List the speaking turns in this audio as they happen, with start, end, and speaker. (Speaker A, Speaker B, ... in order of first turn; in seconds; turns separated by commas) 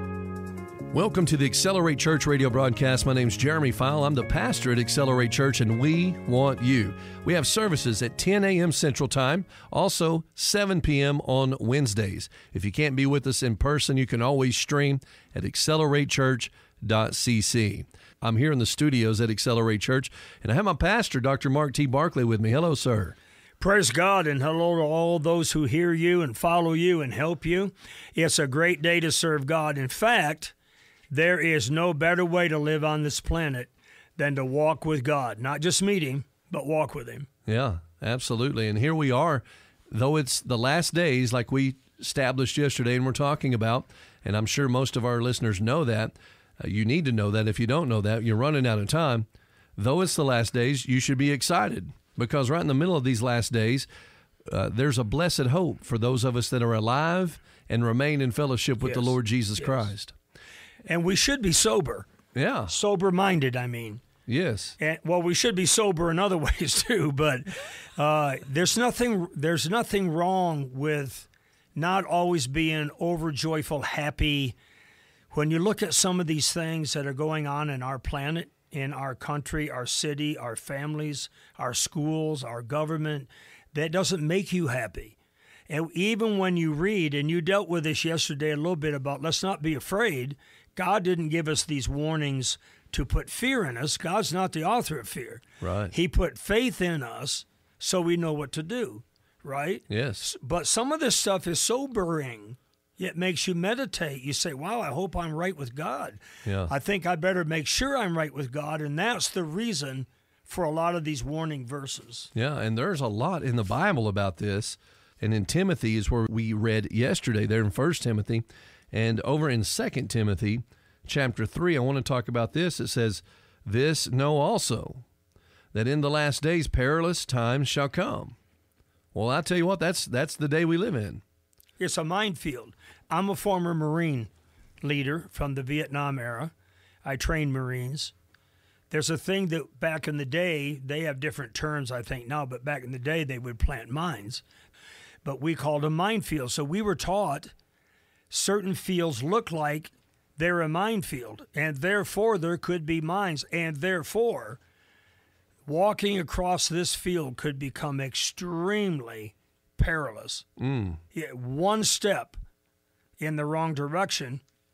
Speaker A: 0.9-23.1, Speaker B: 23.6-30.5, Speaker B: 31.1-37.3, Speaker A: 37.5-53.9, Speaker A: 54.5-60.1, Speaker B: 58.8-59.9, Speaker B: 60.8-62.1, Speaker A: 62.3-62.7, Speaker B: 62.7-64.0, Speaker A: 64.3-64.8, Speaker B: 64.8-74.5, Speaker B: 75.3-85.2, Speaker B: 85.7-112.3, Speaker A: 95.6-95.9, Speaker A: 99.9-100.3, Speaker A: 106.4-106.7, Speaker A: 112.3-125.0, Speaker A: 125.7-128.3, Speaker A: 129.1-131.2, Speaker B: 131.8-134.3, Speaker B: 134.8-136.5, Speaker B: 137.0-138.1, Speaker B: 138.9-144.4, Speaker B: 145.2-147.5, Speaker B: 148.3-154.6, Speaker B: 155.7-160.4, Speaker A: 160.6-161.0, Speaker B: 161.1-162.4, Speaker B: 163.2-164.4